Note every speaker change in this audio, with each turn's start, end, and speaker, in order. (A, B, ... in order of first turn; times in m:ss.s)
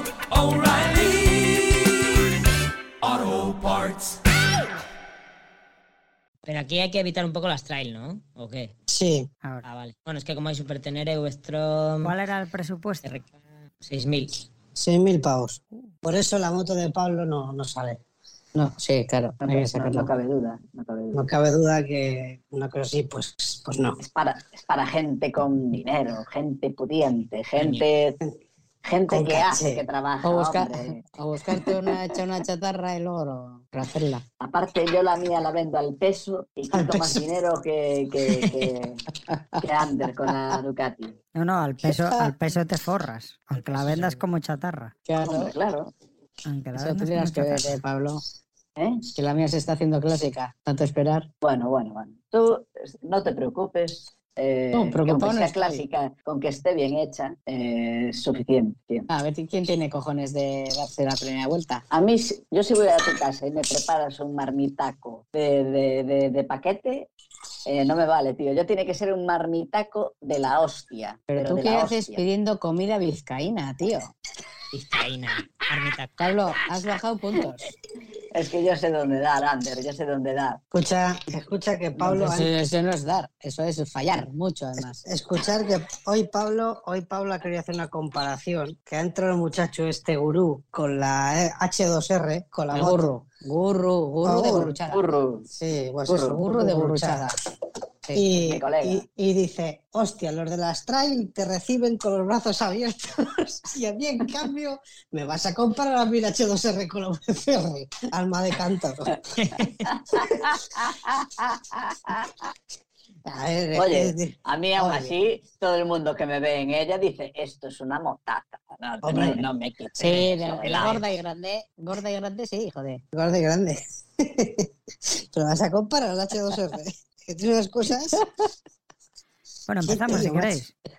0:06.4-0:08.7 A
0:08.9-0:09.3 B
0:09.6-0:12.2 A
0:12.0-0:13.1 C
0:13.0-0:13.3 A
0:13.8-0:14.4 A
0:14.8-0:18.0 B
0:18.6-0:20.1 D
0:19.4-0:21.2 E
0:21.1-0:24.0 B
0:24.0-0:28.2 E
0:27.6-0:27.8 A
0:28.8-0:31.0 E
0:29.1-0:29.8 B
0:30.2-0:34.2 D
0:31.4-0:32.4 B
0:34.4-0:39.0 E
0:36.7-0:37.3 B
0:39.6-0:41.2 E
0:41.4-0:44.9 C
0:45.1-0:45.5 D
0:45.2-0:45.9 E
0:46.4-0:47.8 C
0:46.8-0:48.2 D
0:48.8-0:49.0 E
0:49.1-0:51.3 D
0:51.4-0:59.1 E
0:54.7-0:55.8 D
0:59.1-1:01.8 D
1:01.9-1:07.1 E
1:07.7-1:12.2 E
1:11.3-1:14.0 D
1:14.7-1:16.2 A
1:16.2-1:17.7 D
1:18.3-1:20.6 E
1:20.7-1:22.6 B
1:22.0-1:22.3 E
1:22.2-1:25.0 D
1:24.8-1:33.3 B
1:32.7-1:35.0 D
1:34.2-1:34.7 B
1:34.2-1:35.5 E
1:35.5-1:37.3 B
1:36.1-1:36.6 E
1:36.2-1:37.3 D
1:38.1-1:39.0 E
1:38.2-1:49.2 B
1:49.6-1:52.5 E
1:53.3-1:55.2 B
1:53.8-2:01.0 E
1:59.0-1:59.4 B
2:00.0-2:03.0 D
2:00.2-2:01.0 B
2:03.1-2:04.7 B
2:05.3-2:08.2 B
2:09.7-2:10.7 C
2:09.9-2:10.6 B